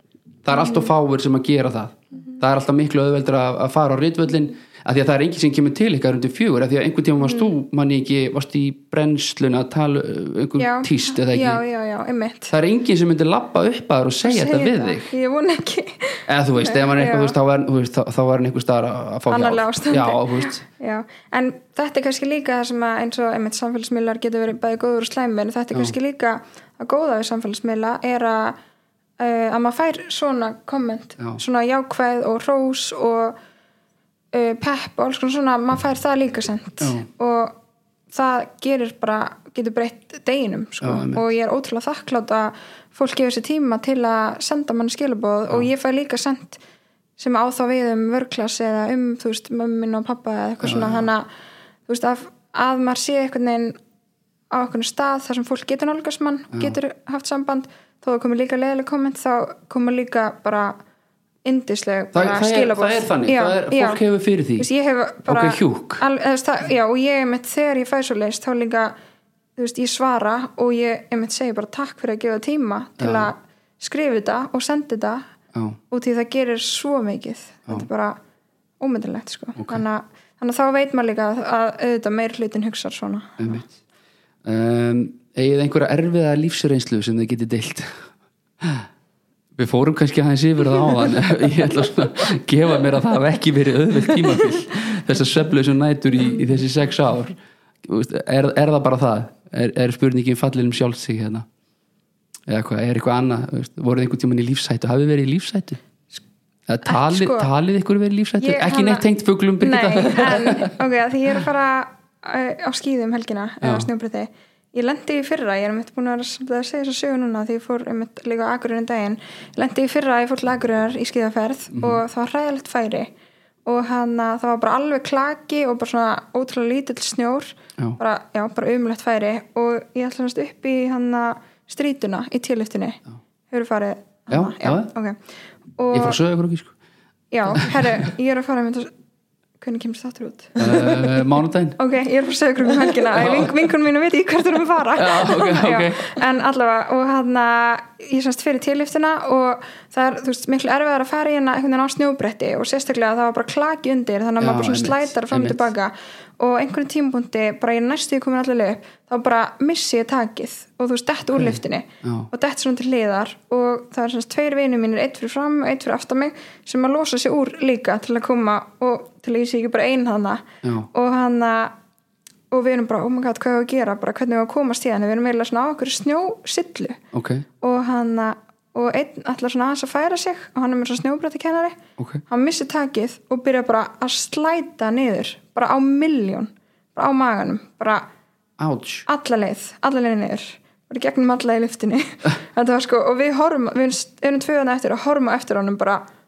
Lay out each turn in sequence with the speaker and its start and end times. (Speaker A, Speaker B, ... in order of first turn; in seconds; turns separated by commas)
Speaker A: 0.4-11.6, Speaker B: 10.6-12.5, Speaker A: 12.5-15.1, Speaker B: 14.2-17.3, Speaker A: 16.3-20.6, Speaker B: 19.3-28.6, Speaker B: 29.2-33.4, Speaker B: 34.3-37.6, Speaker A: 36.8-37.0, Speaker B: 38.1-46.6, Speaker A: 40.8-41.2, Speaker B: 47.2-51.2, Speaker A: 50.6-51.1, Speaker B: 51.9-53.8, Speaker B: 54.5-60.8, Speaker B: 61.4-64.0, Speaker A: 62.1-64.7, Speaker B: 64.6-68.9, Speaker A: 65.2-66.0, Speaker B: 69.5-75.2, Speaker A: 73.0-73.3, Speaker B: 75.9-78.2, Speaker B: 78.8-83.6, Speaker A: 79.6-79.8, Speaker A: 83.4-83.7, Speaker A: 84.4-88.0, Speaker A: 88.6-88.9, Speaker A: 89.5-101.5, Speaker A: 102.5-105.8, Speaker A: 106.7-110.7, Speaker B: 106.8-107.5, Speaker B: 108.4-109.0, Speaker B: 109.6-123.1, Speaker A: 113.6-113.9, Speaker A: 121.7-122.0, Speaker B: 123.6-133.0, Speaker B: 133.5-135.2, Speaker A: 134.3-134.9, Speaker B: 135.8-136.2, Speaker A: 135.9-136.7, Speaker B: 137.3-138.9, Speaker A: 137.5-138.0, Speaker B: 139.6-141.1, Speaker A: 140.6-141.8, Speaker B: 141.8-171.7, Speaker A: 143.1-143.5, Speaker A: 145.0-146.1, Speaker A: 154.4-155.7, Speaker A: 161.3-162.3, Speaker A: 170.6-170.9, Speaker B: 172.5-177.0, Speaker A: 177.1-177.4, Speaker B: 177.6-188.1, Speaker A: 182.0-182.2, Speaker A: 188.6-189.1, Speaker B: 189.1-196.0